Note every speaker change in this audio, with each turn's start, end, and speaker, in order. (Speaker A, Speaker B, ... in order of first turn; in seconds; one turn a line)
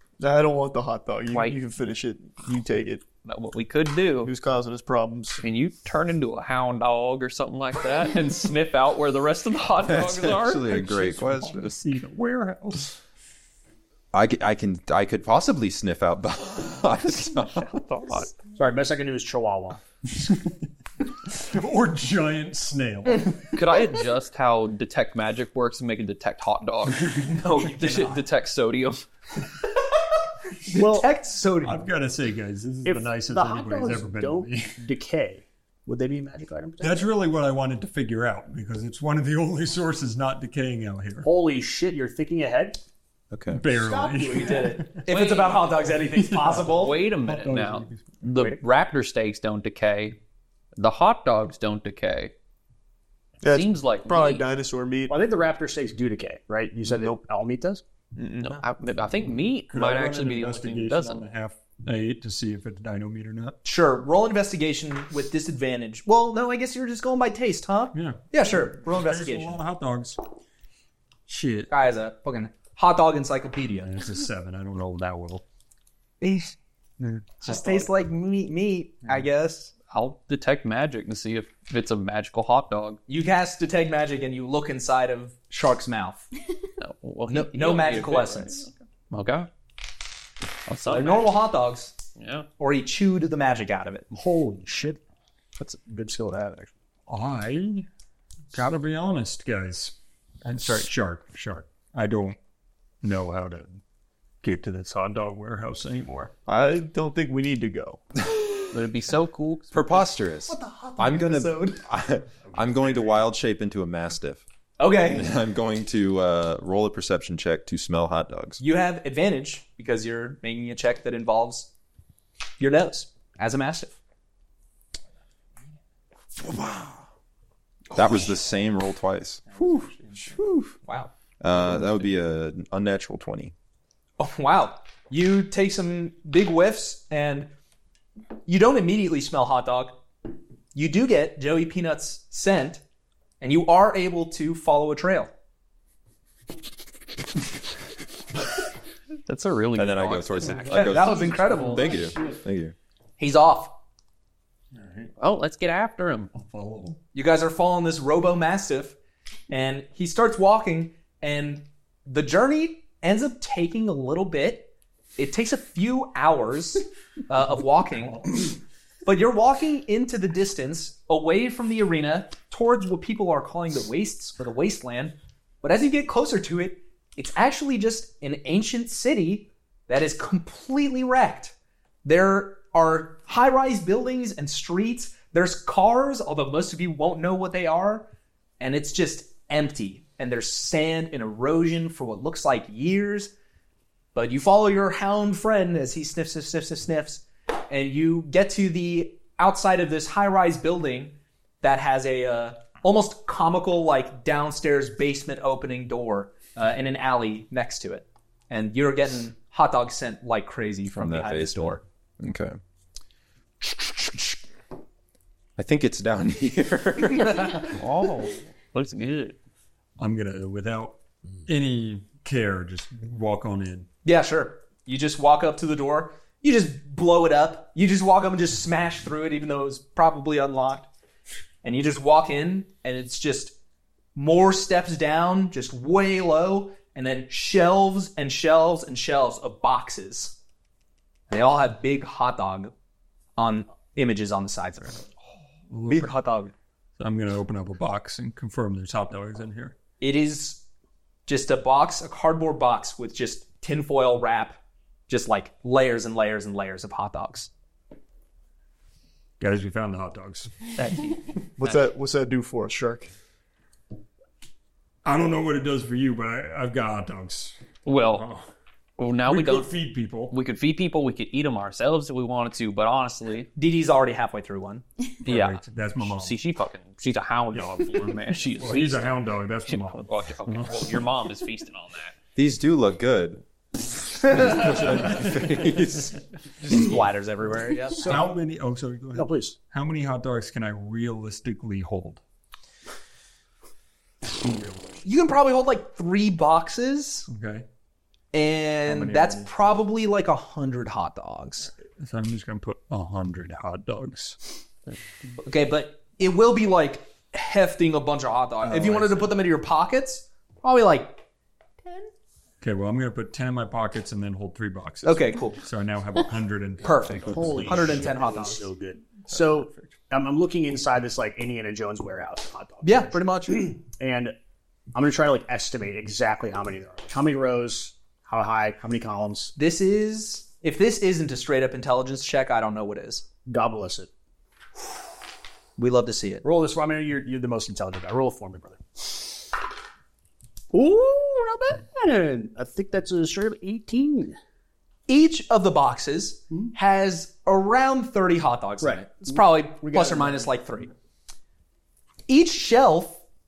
Speaker A: 0.2-3.0
Speaker B: 1.3-1.6
Speaker B: 3.2-4.3
Speaker A: 4.2-5.4
Speaker B: 5.4-10.7
Speaker C: 9.8-11.7
Speaker D: 10.7-13.0
Speaker C: 14.1-17.8
Speaker B: 17.6-18.3
Speaker E: 18.6-19.8
Speaker D: 20.2-20.5
Speaker D: 21.3-23.6
Speaker B: 23.5-29.1
Speaker F: 27.3-28.2
Speaker F: 30.6-31.8
Speaker E: 30.7-31.1
Speaker D: 31.6-34.8
Speaker E: 32.9-37.1
Speaker D: 36.8-41.3
Speaker E: 41.2-42.8
Speaker C: 43.3-43.6
Speaker D: 43.5-45.1
Speaker E: 43.9-44.7
Speaker F: 44.0-47.0
Speaker B: 45.1-45.7
Speaker D: 46.2-48.1
Speaker B: 46.7-50.2
Speaker B: 50.8-52.3
Speaker A: 53.4-55.1
Speaker B: 53.4-54.5
Speaker E: 55.1-57.8
Speaker B: 58.2-61.3
Speaker D: 59.7-63.6
Speaker F: 63.6-69.6
Speaker D: 67.9-70.2
Speaker D: 71.3-71.7
Speaker F: 71.7-73.9
Speaker D: 73.8-75.4
Speaker F: 76.2-76.5
Speaker D: 77.0-77.4
Speaker F: 77.4-79.7
Speaker B: 79.9-83.0
Speaker F: 83.1-86.3
Speaker B: 86.8-89.5
Speaker F: 87.3-88.7
Speaker B: 90.7-91.3
Speaker F: 90.8-92.0
Speaker B: 92.2-92.5
Speaker F: 92.6-94.1
Speaker E: 94.1-95.0
Speaker E: 95.6-96.7
Speaker D: 97.1-97.9
Speaker D: 98.5-102.4
Speaker D: 103.0-103.8
Speaker D: 104.4-106.3
Speaker A: 106.5-108.0
Speaker B: 108.7-109.8
Speaker C: 109.7-114.4
Speaker F: 110.5-111.8
Speaker F: 114.8-115.3
Speaker C: 115.1-118.6
Speaker F: 118.6-121.7
Speaker F: 122.6-124.0
Speaker C: 126.4-127.0
Speaker C: 127.9-130.8
Speaker F: 130.8-131.1
Speaker C: 131.4-133.5
Speaker F: 134.2-137.5
Speaker F: 138.5-140.0
Speaker F: 140.8-142.8
Speaker F: 143.4-145.3
Speaker B: 149.3-151.1
Speaker C: 149.8-152.8
Speaker F: 150.7-152.1
Speaker F: 153.2-153.8
Speaker D: 154.8-155.1
Speaker B: 155.2-156.3
Speaker D: 156.3-157.0
Speaker F: 157.1-159.0
Speaker F: 159.5-168.4
Speaker F: 169.1-188.1
Speaker F: 188.6-193.3
Speaker F: 194.2-211.8
Speaker C: 210.9-212.6
Speaker C: 213.6-214.3
Speaker C: 215.6-217.8
Speaker B: 217.7-219.4
Speaker D: 220.0-223.9
Speaker F: 224.0-230.9
Speaker F: 231.6-233.6
Speaker F: 234.2-240.4
Speaker F: 241.3-242.7
Speaker F: 243.4-245.0
Speaker D: 245.7-246.2
Speaker F: 245.9-246.5
Speaker D: 247.0-249.8
Speaker F: 250.0-250.7
Speaker F: 251.3-254.6
Speaker F: 255.1-257.5
Speaker D: 259.4-260.7
Speaker B: 260.8-261.9
Speaker A: 261.6-263.1
Speaker D: 265.0-267.6
Speaker B: 267.9-268.3
Speaker D: 268.1-268.5
Speaker B: 269.0-269.7
Speaker D: 269.2-270.4
Speaker B: 270.3-273.5
Speaker F: 273.6-274.8
Speaker D: 275.2-276.4
Speaker B: 275.3-282.1
Speaker D: 277.5-280.9
Speaker C: 282.4-283.4
Speaker C: 284.2-286.2
Speaker D: 285.1-285.8
Speaker F: 286.6-288.2
Speaker D: 288.0-292.2
Speaker E: 288.0-288.3
Speaker E: 289.1-289.6
Speaker D: 294.4-294.9
Speaker F: 295.0-297.3
Speaker D: 297.3-297.7
Speaker F: 298.3-301.7
Speaker D: 298.9-299.4
Speaker D: 302.0-304.4
Speaker F: 305.4-311.2
Speaker D: 308.7-309.4
Speaker F: 311.8-312.1
Speaker D: 312.6-318.1
Speaker F: 315.0-315.6
Speaker F: 316.8-318.7
Speaker E: 317.1-324.4
Speaker D: 319.3-319.9
Speaker F: 322.8-323.8
Speaker E: 324.9-329.5
Speaker F: 329.6-333.3
Speaker E: 333.5-334.1
Speaker F: 335.8-336.4
Speaker E: 336.4-339.5
Speaker E: 340.7-344.4
Speaker F: 345.1-350.9
Speaker E: 348.8-350.5
Speaker F: 352.3-353.2